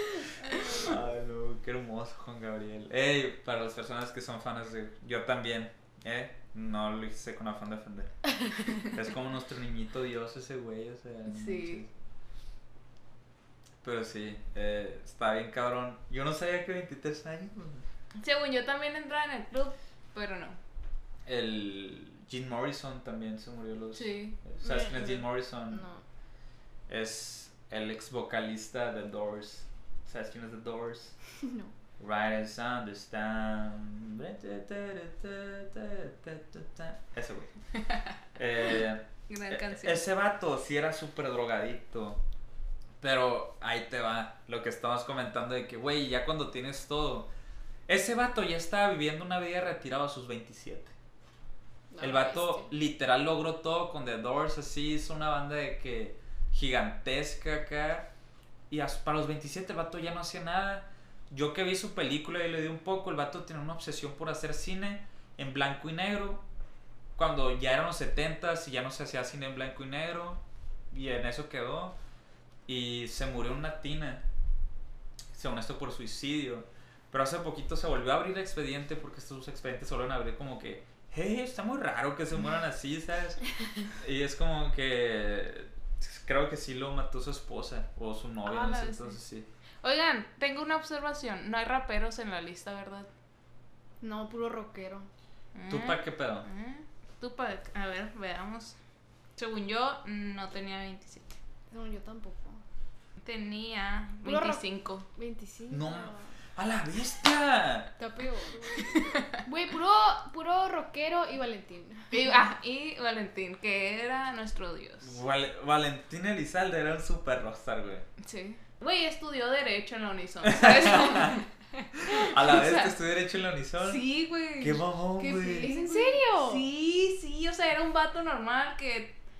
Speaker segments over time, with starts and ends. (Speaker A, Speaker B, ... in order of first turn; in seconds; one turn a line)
Speaker A: 0.4-1.0
Speaker B: 0.7-8.2
Speaker B: 8.7-11.9
Speaker C: 11.2-11.8
Speaker B: 13.8-17.8
Speaker C: 18.2-20.6
Speaker B: 21.2-25.9
Speaker C: 23.9-24.4
Speaker A: 24.6-26.0
Speaker B: 26.9-31.2
Speaker A: 31.4-31.7
Speaker B: 32.0-37.5
Speaker B: 38.4-42.2
Speaker C: 39.3-40.0
Speaker B: 43.0-47.3
Speaker B: 47.9-50.9
Speaker A: 51.9-52.7
Speaker B: 52.0-58.1
Speaker B: 58.7-66.4
Speaker B: 67.2-72.0
Speaker B: 72.7-74.2
Speaker B: 75.3-89.5
Speaker C: 88.4-89.2
Speaker C: 89.8-93.1
Speaker A: 94.0-95.1
Speaker C: 95.5-98.8
Speaker B: 95.7-96.5
Speaker C: 99.4-101.4
Speaker A: 101.7-102.6
Speaker C: 103.2-105.1
Speaker A: 104.2-106.4
Speaker B: 105.7-108.0
Speaker A: 108.0-112.1
Speaker C: 108.8-109.4
Speaker C: 112.1-115.2
Speaker B: 115.0-118.0
Speaker C: 118.2-121.5
Speaker B: 120.4-121.4
Speaker B: 122.0-124.0
Speaker C: 122.0-122.9
Speaker C: 123.8-129.2
Speaker B: 124.6-125.8
Speaker A: 125.5-126.7